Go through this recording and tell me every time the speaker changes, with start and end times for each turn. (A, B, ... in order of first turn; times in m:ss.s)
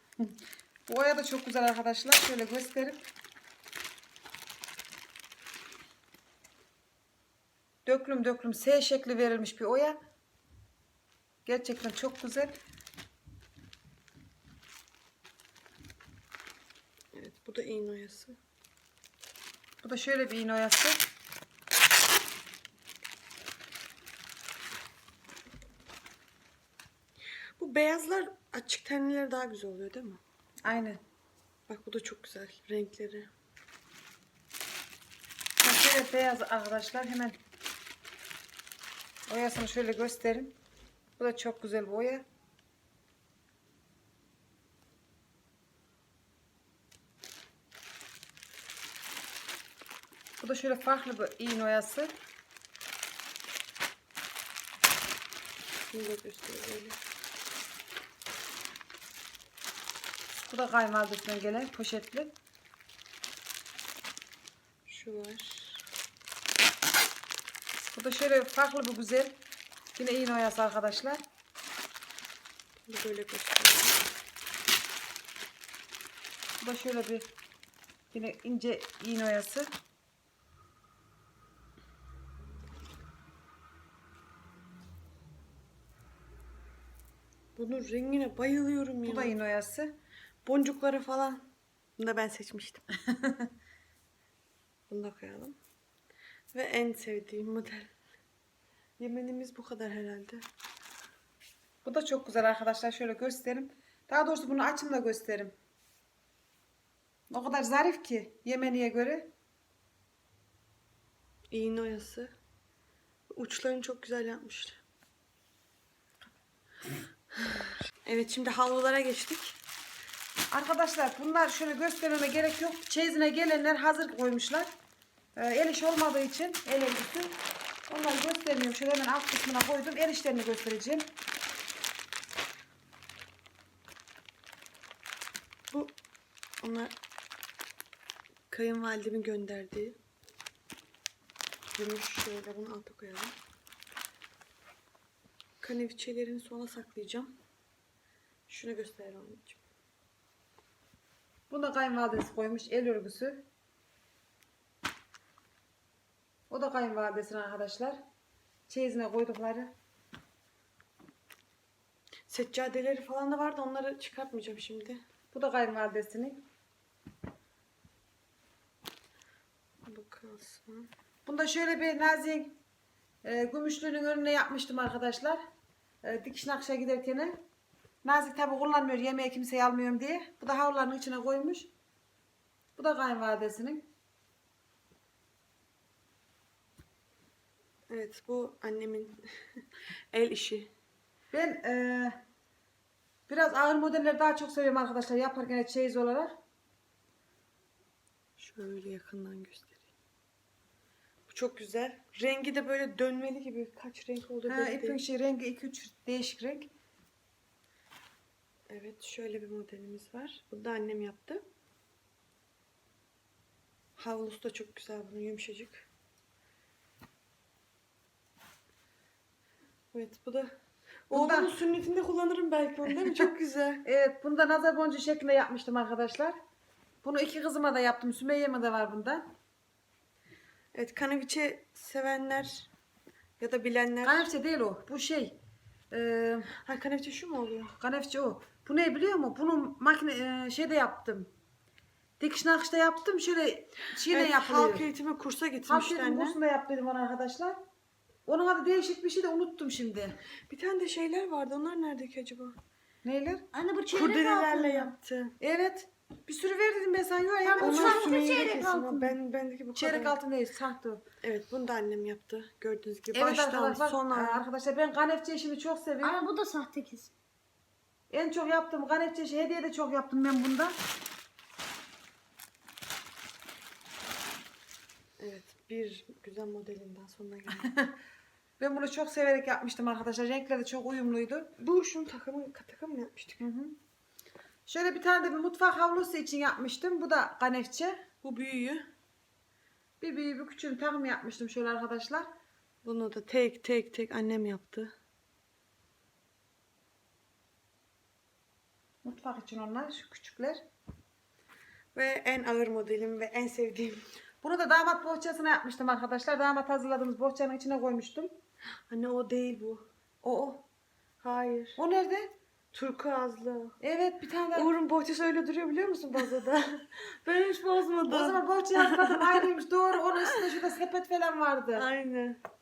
0:00.2-0:03.0 A
0:07.8-0:10.0 A
0:11.4-0:12.6 A
0:17.1-0:18.4 B
0:19.8-0:21.0 A
0:27.6-0:30.2 B
0:30.6-0:31.0 A
0:31.7-0:33.3 B
0:35.6-0:37.4 A
0:39.3-0:40.6 A
0:41.2-0:42.2 A
0:50.4-0:52.1 A
0:55.9-0:57.0 B
1:00.5-1:02.3 A
1:04.8-1:05.8 B
1:07.9-1:09.4 A
1:10.0-1:11.2 A
1:12.9-1:14.0 B
1:16.6-1:17.3 A
1:18.1-1:19.7 A
1:27.6-1:29.4 B
1:29.0-1:29.9 A
1:30.4-1:32.8 B
1:33.1-1:33.5 A
1:34.9-1:35.6 B
1:36.5-1:37.9 B
1:39.0-1:40.4 B
1:41.8-1:45.5 A
1:47.3-1:49.3 A
1:51.5-1:52.3 B
1:53.3-1:54.8 B
1:58.0-1:59.6 B
2:00.5-2:04.7 A
2:05.4-2:07.4 A
2:07.9-2:11.1 A
2:15.7-2:16.0 B
2:16.6-2:16.9 B
2:18.5-2:20.0 B
2:21.7-2:23.4 B
2:25.6-2:27.4 B
2:28.5-2:29.6 B
2:31.5-2:33.4 A
2:36.5-2:38.0 A
2:38.7-2:39.7 A
2:42.3-2:45.0 B
2:45.3-2:46.4 A
2:49.8-2:50.9 B
2:51.2-2:52.6 A
2:53.2-2:55.4 A
2:56.0-2:57.4 A
2:58.0-3:01.7 A
3:02.8-3:03.9 A
3:07.9-3:10.7 B
3:11.3-3:12.2 A
3:13.3-3:16.4 A
3:18.4-3:19.9 B
3:21.3-3:25.0 B
3:24.5-3:26.7 A
3:28.7-3:31.4 B
3:34.0-3:35.9 B
3:39.9-3:40.6 B
3:41.1-3:43.8 B
3:41.1-3:41.5 A
3:43.0-3:43.3 A
3:43.8-3:46.4 A
3:47.0-3:49.3 A
3:50.7-3:52.7 B
3:53.4-3:54.3 B
3:54.0-3:55.4 A
3:55.9-3:56.5 A
3:56.5-3:57.7 B
3:57.8-4:01.3 A
4:02.2-4:04.9 A
4:04.1-4:06.4 B
4:05.7-4:07.6 A
4:08.2-4:10.2 A
4:10.5-4:12.6 B
4:13.0-4:13.4 A
4:13.5-4:14.9 C
4:13.9-4:15.4 B
4:15.4-4:18.1 A
4:17.4-4:19.1 C
4:17.6-4:20.2 B
4:19.7-4:21.0 A
4:21.2-4:24.4 B
4:23.1-4:26.2 A
4:26.0-4:27.1 C
4:28.1-4:30.8 A
4:35.2-4:37.7 B
4:37.5-4:37.9 A
4:38.6-4:41.5 A
4:41.6-4:43.4 B
4:43.4-4:43.8 A
4:44.7-4:48.0 A
4:48.2-4:48.9 B
4:50.0-4:52.3 A
4:52.8-4:54.9 B
4:59.0-5:00.6 A
5:01.9-5:04.0 B
5:04.4-5:08.3 A
5:08.9-5:09.9 B
5:10.2-5:10.6 A
5:11.2-5:11.8 B
5:11.8-5:12.3 A
5:12.7-5:13.8 B
5:13.8-5:14.7 A
5:14.5-5:19.5 B
5:18.1-5:21.9 A
5:20.2-5:20.6 B
5:21.7-5:22.4 B